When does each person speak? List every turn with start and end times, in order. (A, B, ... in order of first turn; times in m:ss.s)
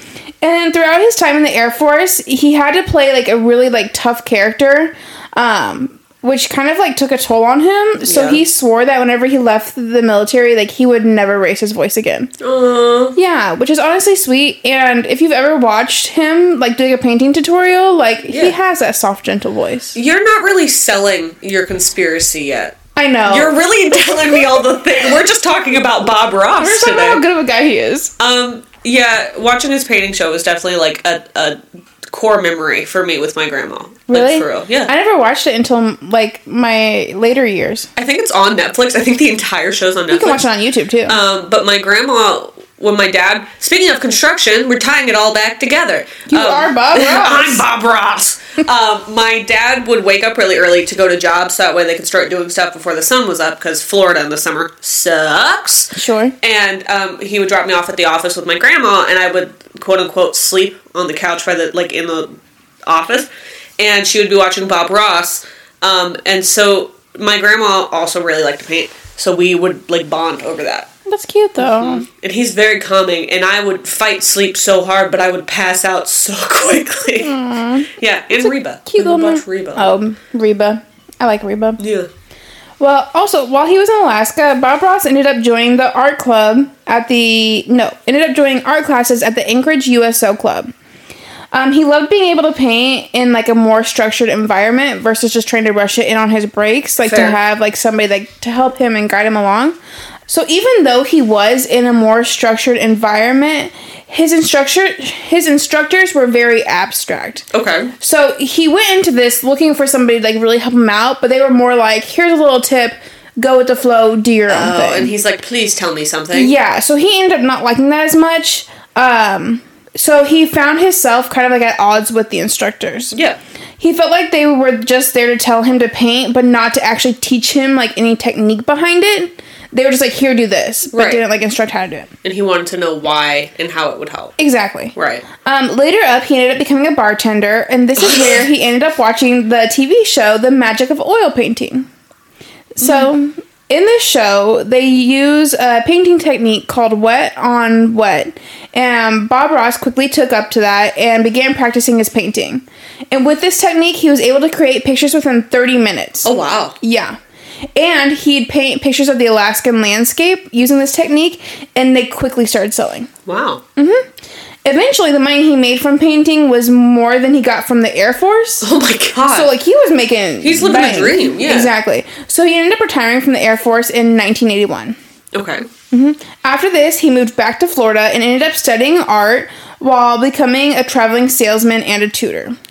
0:00.4-0:12.3 A
0:08.0-0:08.4 B
0:12.4-0:13.2 B
0:13.1-0:20.0 A
0:18.3-0:18.6 B
0:19.9-0:22.8 B
0:22.9-0:23.6 A
0:23.3-0:27.2 B
0:26.6-0:28.1 A
0:28.2-0:34.9 B
0:34.1-0:37.9 A
0:38.0-0:40.5 B
0:40.1-0:41.2 A
0:41.1-1:02.3 B
0:46.3-0:47.6 A
0:55.9-0:56.4 A
1:02.8-1:10.9 B
1:11.0-1:12.1 A
1:11.6-1:17.4 B
1:17.2-1:21.8 A
1:17.9-1:19.9 B
1:21.8-1:22.1 B
1:22.8-1:30.7 A
1:31.5-1:39.8 A
1:37.0-1:37.4 B
1:40.3-1:47.4 A
1:47.5-1:47.9 B
1:48.0-1:55.1 A
1:54.5-1:56.6 B
1:56.3-2:03.2 A
2:03.1-2:03.4 B
2:03.8-2:12.1 A
2:10.9-2:11.2 B
2:12.2-2:14.3 B
2:14.4-2:21.9 A
2:14.9-2:15.2 B
2:18.1-2:18.4 B
2:22.7-2:37.2 A
2:22.8-2:23.1 B
2:36.2-2:36.8 B
2:37.8-2:43.1 A
2:43.2-2:43.6 B
2:43.8-2:44.1 A
2:44.6-2:48.7 A
2:48.6-2:49.5 B
2:49.3-2:55.0 A
2:50.4-2:51.7 B
2:55.3-2:55.6 B
2:55.9-3:02.5 A